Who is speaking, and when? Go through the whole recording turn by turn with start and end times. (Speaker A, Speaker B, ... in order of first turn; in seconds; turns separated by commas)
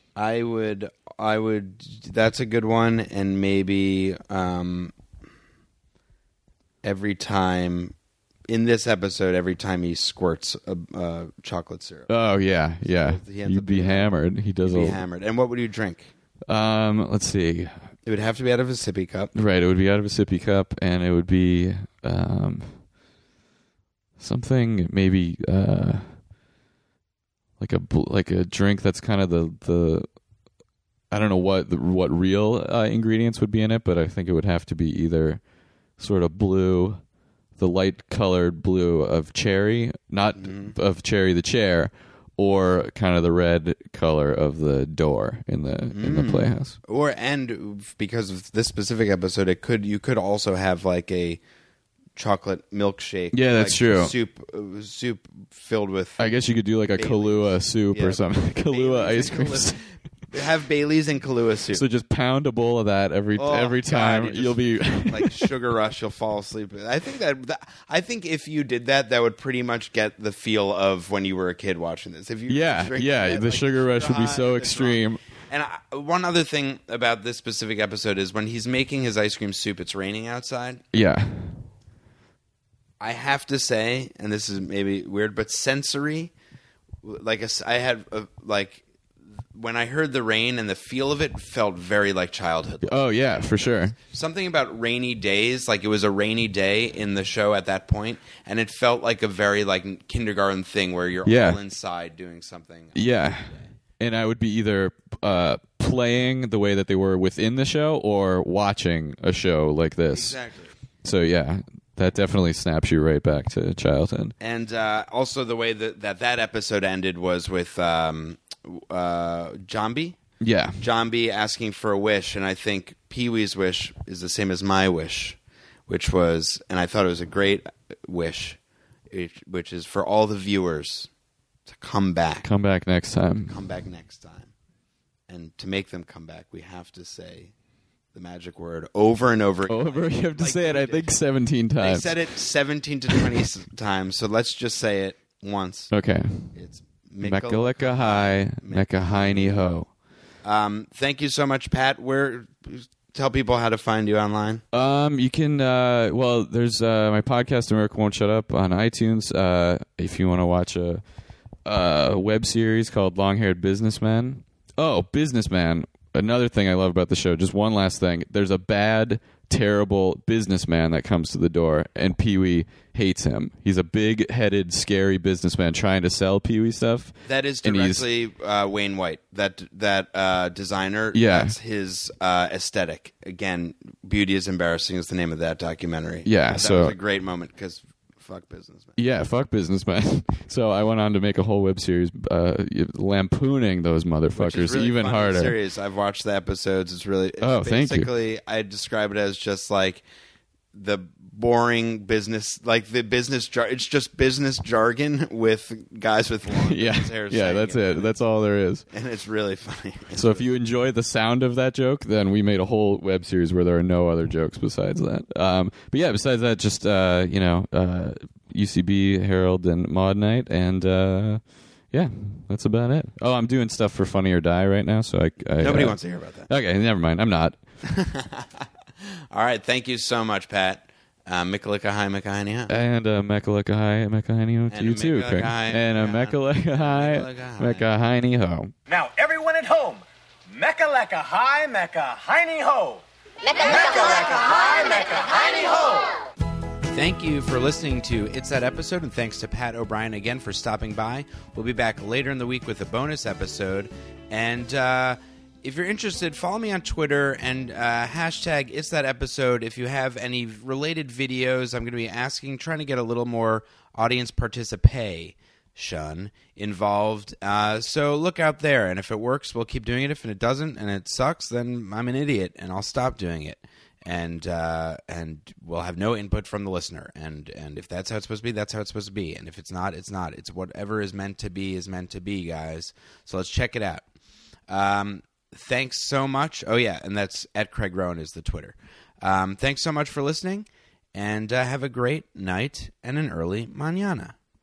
Speaker A: 0.1-4.9, Speaker A: 6.8-7.9, Speaker A: 8.5-12.2, Speaker B: 12.1-15.0, Speaker A: 12.8-16.1, Speaker B: 16.5-17.8, Speaker A: 18.1-19.3, Speaker B: 19.3-22.8, Speaker B: 24.2-26.2, Speaker B: 27.6-30.1, Speaker B: 31.1-35.4, Speaker B: 36.0-37.0, Speaker B: 37.6-46.8, Speaker A: 40.4-40.8, Speaker A: 45.9-51.4, Speaker A: 52.1-56.3, Speaker B: 53.3-54.1, Speaker B: 56.2-59.8, Speaker A: 56.9-61.8, Speaker B: 61.7-65.5, Speaker A: 63.4-80.8, Speaker B: 72.5-75.2, Speaker B: 80.9-81.6, Speaker A: 83.0-86.3, Speaker A: 87.0-88.8, Speaker A: 89.5-93.1, Speaker B: 92.8-94.0, Speaker A: 94.0-103.7, Speaker B: 101.2-101.6, Speaker B: 102.9-110.4, Speaker A: 110.1-110.7, Speaker B: 111.0-114.3, Speaker A: 114.4-120.2, Speaker B: 120.4-120.8, Speaker A: 120.8-128.6, Speaker A: 129.1-131.1, Speaker A: 131.7-132.5, Speaker B: 132.4-133.6, Speaker A: 133.5-134.5, Speaker A: 135.3-137.5, Speaker A: 138.1-141.1, Speaker B: 139.7-142.2, Speaker A: 141.8-145.9, Speaker B: 145.9-146.6, Speaker A: 146.5-149.7, Speaker B: 147.2-149.9, Speaker A: 150.4-154.6, Speaker B: 154.7-161.0, Speaker B: 161.6-178.1, Speaker A: 177.2-189.0, Speaker B: 181.1-181.6, Speaker B: 186.2-186.9, Speaker B: 189.0-195.6, Speaker A: 194.3-200.0, Speaker B: 197.4-198.1, Speaker A: 200.7-208.1, Speaker B: 206.6-208.9, Speaker A: 208.9-210.5, Speaker B: 210.1-227.6, Speaker A: 225.6-226.5, Speaker A: 227.8-228.7, Speaker A: 229.3-232.7, Speaker B: 232.7-238.7, Speaker A: 234.7-237.9, Speaker C: 238.9-246.2, Speaker A: 246.9-284.1, Speaker A: 284.7-294.4